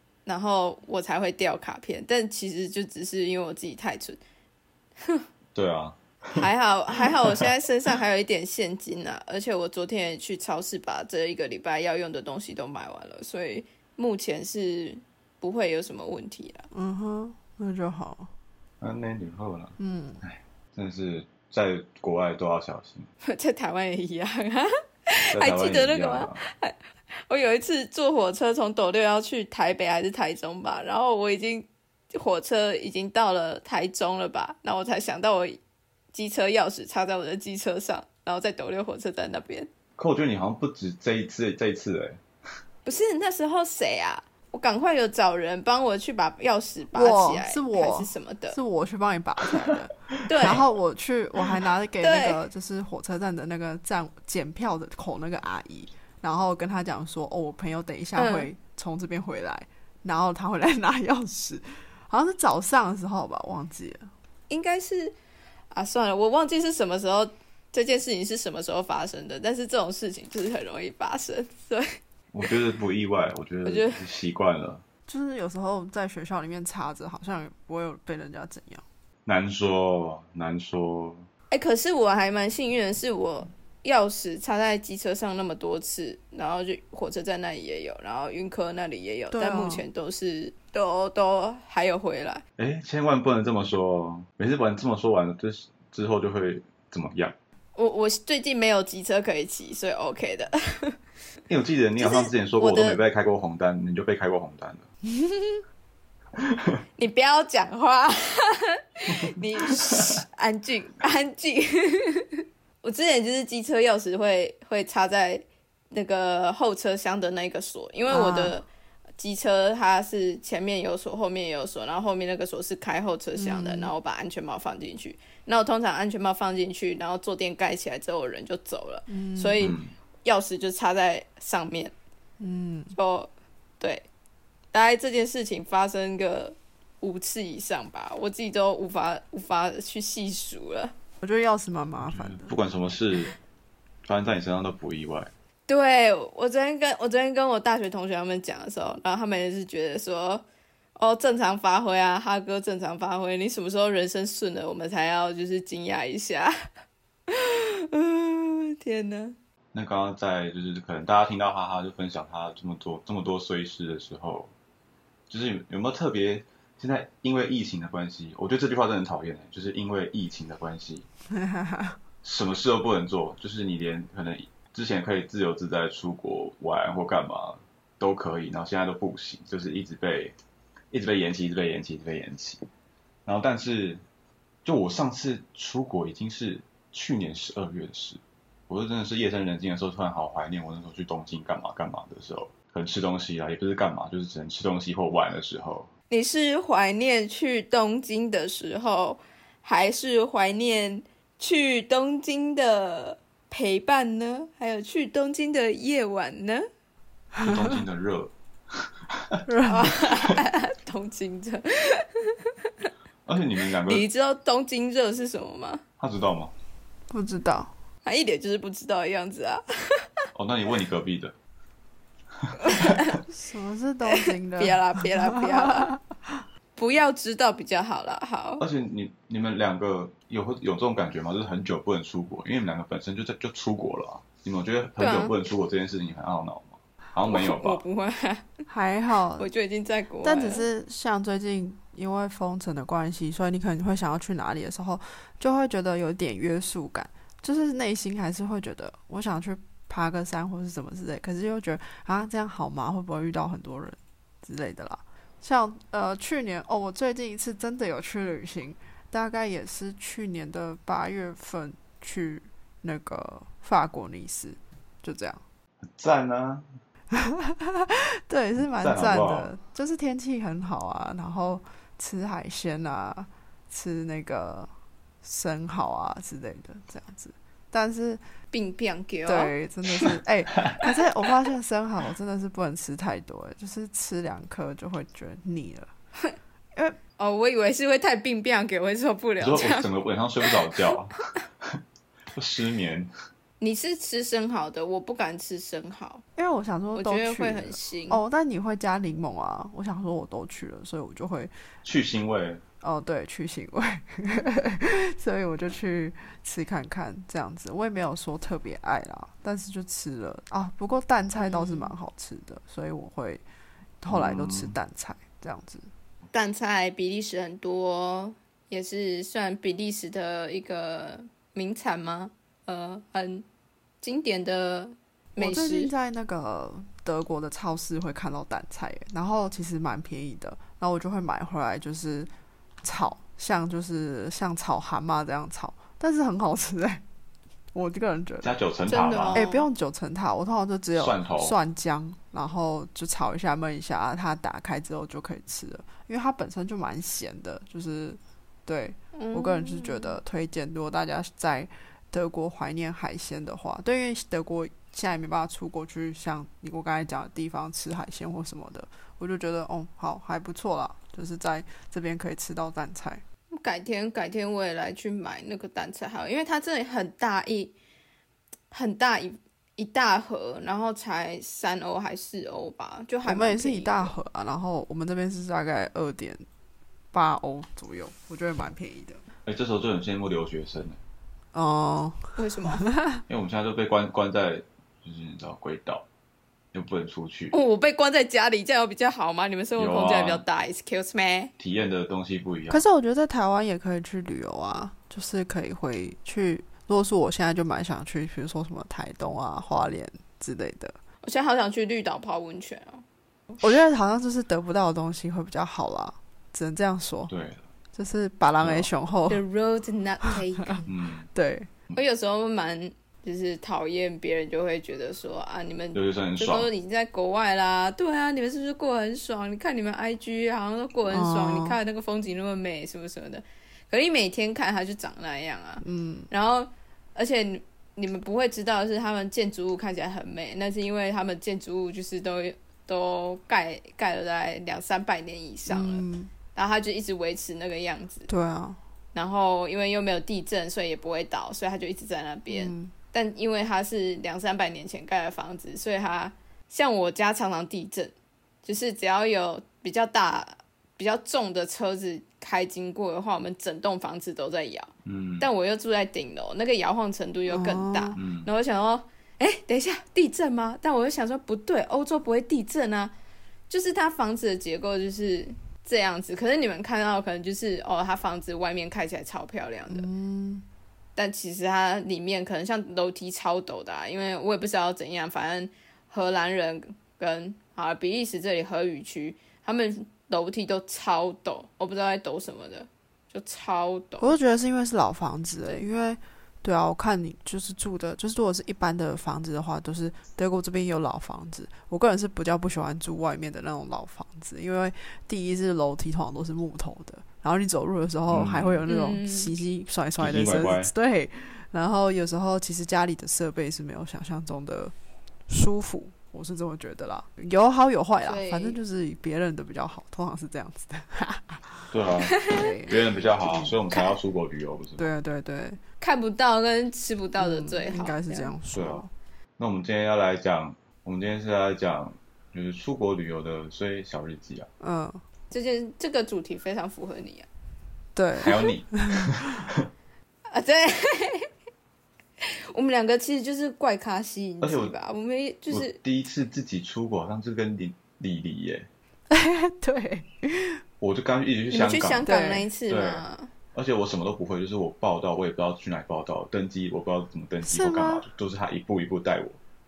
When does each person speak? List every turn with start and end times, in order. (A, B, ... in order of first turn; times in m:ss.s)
0:00.2-0:04.2 A
0:05.6-0:06.5 B
0:06.4-0:16.7 A
0:07.2-0:07.5 B
0:16.7-0:18.3 C
0:18.8-0:23.1 B
0:19.8-0:20.2 C
0:23.2-0:26.8 A
0:25.3-0:26.4 B
0:27.3-0:35.6 A
0:36.1-0:39.7 A
0:40.0-0:42.2 B
0:42.9-0:48.6 A
0:46.9-1:04.1 C
0:50.3-0:50.6 A
0:52.0-0:52.4 A
0:58.2-0:58.5 A
1:04.5-1:05.1 A
1:05.7-1:11.9 A
1:12.3-1:14.8 B
1:13.6-1:14.0 A
1:15.1-1:18.8 C
1:19.2-1:21.2 B
1:21.5-1:32.4 A
1:29.3-1:29.8 C
1:32.6-1:37.4 B
1:37.8-1:41.0 A
1:41.5-1:44.9 B
1:42.0-1:43.0 A
1:46.4-1:46.8 B
1:47.0-1:58.7 A
1:58.1-1:58.5 C
1:59.2-2:11.9 A
2:03.4-2:03.9 C
2:09.1-2:09.6 C
2:09.6-2:09.9 B
2:12.4-2:12.9 C
2:12.9-2:14.1 A
2:14.7-2:20.9 A
2:21.2-2:22.5 C
2:22.1-2:23.3 B
2:24.1-2:25.3 B
2:25.7-2:30.4 A
2:31.0-2:36.5 A
2:37.3-2:39.4 A
2:39.7-2:44.5 B
2:45.3-2:51.1 B
2:51.3-2:52.0 C
2:52.2-3:00.4 B
3:00.9-3:02.6 B
3:03.2-3:04.0 B
3:04.6-3:15.9 B
3:16.1-3:26.7 A
3:27.4-3:27.7 C
3:27.4-3:29.4 B
3:29.5-3:29.9 C
3:29.6-3:32.9 A
3:33.2-3:34.1 B
3:33.8-3:35.8 A
3:36.0-3:36.5 B
3:37.1-3:37.7 C
3:38.0-3:40.1 A
3:40.4-3:41.3 B
3:42.4-3:42.8 B
3:42.6-3:43.2 A
3:43.3-3:46.4 C
3:44.1-3:45.9 A
3:46.8-3:48.6 A
3:48.6-3:57.8 B
3:55.0-3:55.3 A
3:57.3-3:58.6 A
3:58.7-3:59.5 C
3:59.4-4:00.6 A
4:00.2-4:25.4 C
4:25.9-4:26.6 B
4:27.1-4:34.7 C
4:28.8-4:29.5 B
4:35.2-4:38.2 C
4:38.5-4:39.5 A
4:39.2-4:45.9 C
4:47.2-4:49.9 A
4:49.4-4:51.8 B
4:50.5-4:50.8 A
4:52.4-4:53.1 B
4:53.6-4:56.2 A
4:56.4-5:01.5 C
4:57.0-4:58.2 A
5:01.8-5:02.6 B
5:02.8-5:13.4 C
5:11.4-5:11.9 A
5:14.0-5:15.9 C
5:14.1-5:14.8 B
5:16.3-5:23.4 A
5:24.0-5:25.9 A
5:25.4-5:32.3 C
5:32.8-5:37.0 C
5:37.7-5:38.6 C
5:38.4-5:39.4 B
5:38.9-5:39.6 A
5:39.3-6:03.2 C
5:41.0-5:41.6 B
5:49.1-5:50.2 A
6:03.5-6:07.7 A
6:08.7-6:14.1 A
6:13.2-6:16.4 C
6:17.1-6:19.2 C
6:19.5-6:21.0 B
6:21.5-6:23.2 C
6:22.4-6:22.8 A
6:23.3-6:26.0 B
6:26.7-6:27.5 B
6:27.5-6:31.5 A
6:29.8-6:30.4 B
6:31.6-6:32.8 B
6:32.7-6:41.0 C
6:41.2-6:43.0 A
6:43.6-6:47.3 C
6:47.3-6:47.6 B
6:47.9-6:49.4 C
6:48.6-6:48.9 B
6:49.3-6:50.9 A
6:50.2-6:50.8 C
6:50.9-6:51.3 B
6:51.3-6:51.7 C
6:51.9-7:18.3 A
6:55.9-6:56.7 B
7:01.1-7:01.8 C
7:05.8-7:06.3 C
7:15.7-7:16.3 C
7:18.3-7:18.8 C
7:19.1-7:28.1 A
7:22.5-7:22.9 C
7:28.6-7:34.9 A
7:35.1-7:35.5 B
7:35.4-7:43.1 A
7:37.5-7:38.2 C
7:38.2-7:38.5 B
7:43.7-7:50.1 A
7:49.9-7:50.6 C
7:51.2-8:04.4 A
8:04.2-8:24.9 C
8:18.3-8:18.8 B
8:18.9-8:19.5 A
8:20.2-8:20.9 B
8:25.5-8:31.9 C
8:28.2-8:28.8 A
8:31.9-8:35.1 B
8:32.4-8:32.7 A
8:32.4-8:34.1 C
8:35.0-8:35.8 C
8:36.0-8:38.5 A
8:37.4-8:39.1 C
8:38.7-8:39.0 B
8:39.6-8:44.7 B
8:44.8-8:45.2 C
8:45.5-8:47.5 A
8:48.1-8:49.6 C
8:48.4-8:49.9 B
8:50.5-8:51.5 A
8:52.4-8:56.0 A
8:54.6-8:54.9 B
8:55.7-8:58.9 B
8:59.3-9:00.8 C
9:01.0-9:02.3 B
9:01.7-9:03.5 A
9:02.2-9:02.7 C
9:02.9-9:09.6 B
9:07.6-9:08.2 C